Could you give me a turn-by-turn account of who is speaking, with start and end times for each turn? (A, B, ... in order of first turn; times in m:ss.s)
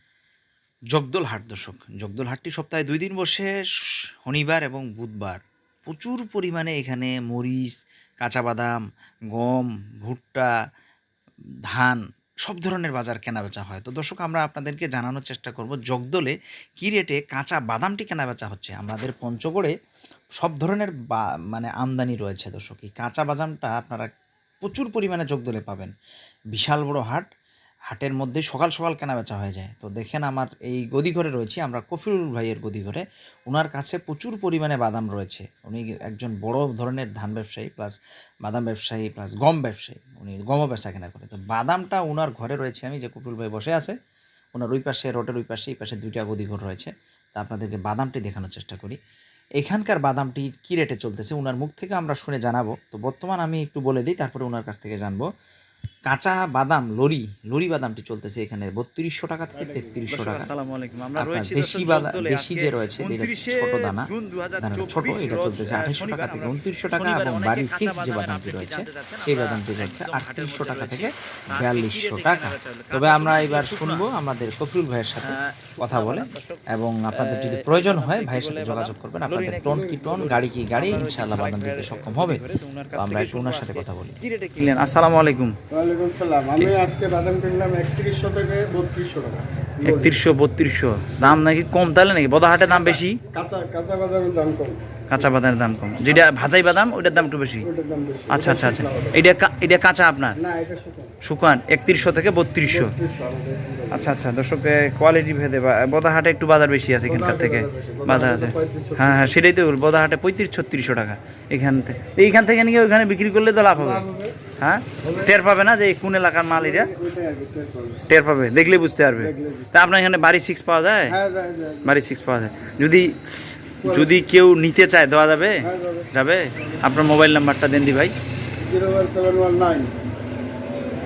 0:00.9-0:03.5 A
0:04.2-0:08.7 A
0:09.3-0:10.5 A
0:11.7-0:19.7 A
0:20.4-0:24.1 A
0:24.6-0:25.9 A
0:26.5-0:27.3 A
0:27.9-0:43.9 A
0:44.5-0:49.0 A
0:49.6-0:55.2 A
0:56.0-1:00.5 A
0:59.5-1:00.3 B
1:00.1-1:14.0 C
1:01.2-1:22.4 A
1:15.2-1:16.6 C
1:17.2-1:25.6 C
1:22.9-1:24.2 A
1:25.7-1:30.2 B
1:29.8-1:33.2 C
1:32.6-1:35.3 B
1:35.1-1:37.7 C
1:36.1-1:39.3 B
1:38.3-1:40.4 C
1:40.3-1:41.1 B
1:41.2-1:42.9 C
1:42.6-1:44.2 B
1:43.9-1:54.0 C
1:47.0-1:49.4 B
1:53.7-1:54.4 B
1:54.6-1:56.9 C
1:55.0-1:55.3 B
1:56.5-1:58.0 B
1:58.1-2:01.2 C
1:59.2-1:59.8 B
2:01.0-2:02.0 B
2:01.8-2:03.2 C
2:03.8-2:08.1 C
2:03.8-2:04.2 B
2:05.6-2:06.1 B
2:08.6-2:09.9 B